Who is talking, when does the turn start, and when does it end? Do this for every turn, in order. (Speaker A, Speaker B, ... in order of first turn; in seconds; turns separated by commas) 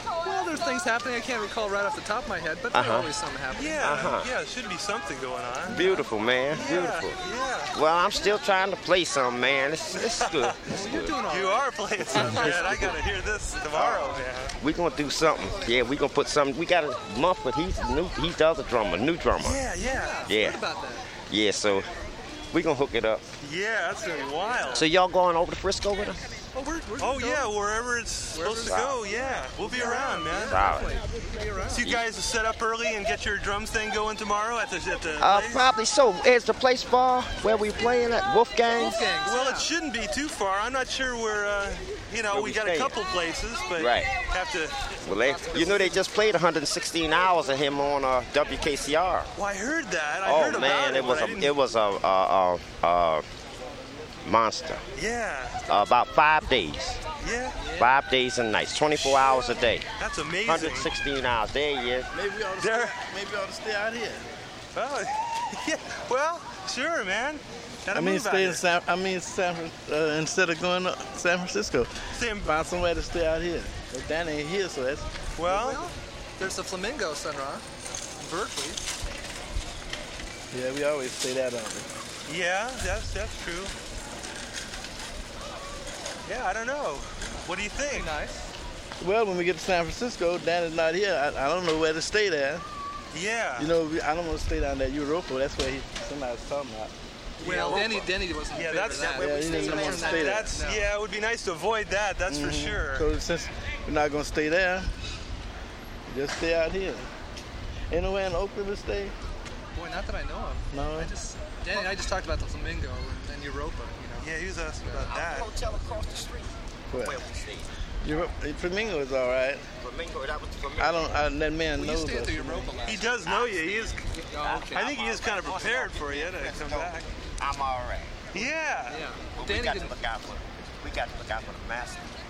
Speaker A: 0.2-4.0, Speaker B: 2.7-3.1, Speaker C: 3.6-7.8, Speaker B: 3.8-4.3, Speaker B: 5.7-7.2, Speaker A: 5.8-6.0, Speaker B: 7.7-11.2, Speaker C: 9.9-10.6, Speaker A: 10.7-12.7, Speaker C: 11.3-14.5, Speaker B: 12.1-12.9, Speaker B: 13.7-19.6, Speaker C: 19.4-20.3, Speaker A: 19.8-21.1, Speaker B: 20.3-20.6, Speaker B: 21.3-21.9, Speaker B: 22.5-23.2, Speaker C: 23.4-24.9, Speaker B: 24.7-26.4, Speaker A: 26.5-27.5, Speaker C: 27.0-30.7, Speaker A: 28.3-31.8, Speaker B: 28.7-29.0, Speaker B: 30.5-31.0, Speaker C: 31.7-35.7, Speaker B: 35.2-39.1, Speaker A: 38.7-39.7, Speaker C: 39.2-44.8, Speaker B: 42.3-43.0, Speaker B: 43.8-44.1, Speaker B: 45.0-49.3, Speaker C: 45.4-46.0, Speaker C: 49.4-51.6, Speaker B: 50.2-53.2, Speaker B: 54.2-54.8, Speaker C: 55.0-55.9, Speaker B: 55.7-57.0, Speaker C: 57.2-57.6, Speaker A: 57.6-57.9, Speaker B: 57.8-59.9, Speaker C: 60.0-60.9, Speaker B: 60.5-62.1, Speaker D: 62.1-64.2, Speaker C: 62.6-63.0, Speaker C: 64.8-68.6, Speaker D: 67.9-75.1, Speaker C: 72.1-72.6, Speaker C: 75.4-75.8, Speaker A: 75.4-77.7, Speaker A: 78.2-78.8, Speaker D: 80.5-81.9, Speaker C: 82.3-83.7, Speaker C: 86.3-88.1, Speaker A: 87.9-88.4, Speaker D: 89.0-92.6, Speaker C: 93.1-93.7, Speaker D: 93.6-96.9, Speaker A: 97.4-100.9, Speaker C: 97.4-99.2, Speaker B: 98.9-100.4, Speaker D: 99.2-100.6, Speaker C: 100.1-103.1, Speaker D: 102.3-104.9, Speaker D: 106.1-107.1, Speaker D: 107.9-109.1, Speaker A: 109.8-115.1, Speaker D: 110.7-111.1, Speaker C: 114.2-115.5, Speaker B: 115.1-117.7, Speaker D: 116.9-117.2, Speaker D: 118.0-119.7, Speaker B: 119.8-121.2, Speaker D: 120.8-122.9, Speaker A: 121.8-123.2, Speaker C: 122.8-124.1, Speaker B: 123.2-123.7, Speaker A: 124.2-125.0, Speaker B: 124.3-128.4, Speaker C: 124.7-127.1, Speaker C: 128.3-129.0, Speaker A: 128.9-130.0, Speaker B: 129.3-132.2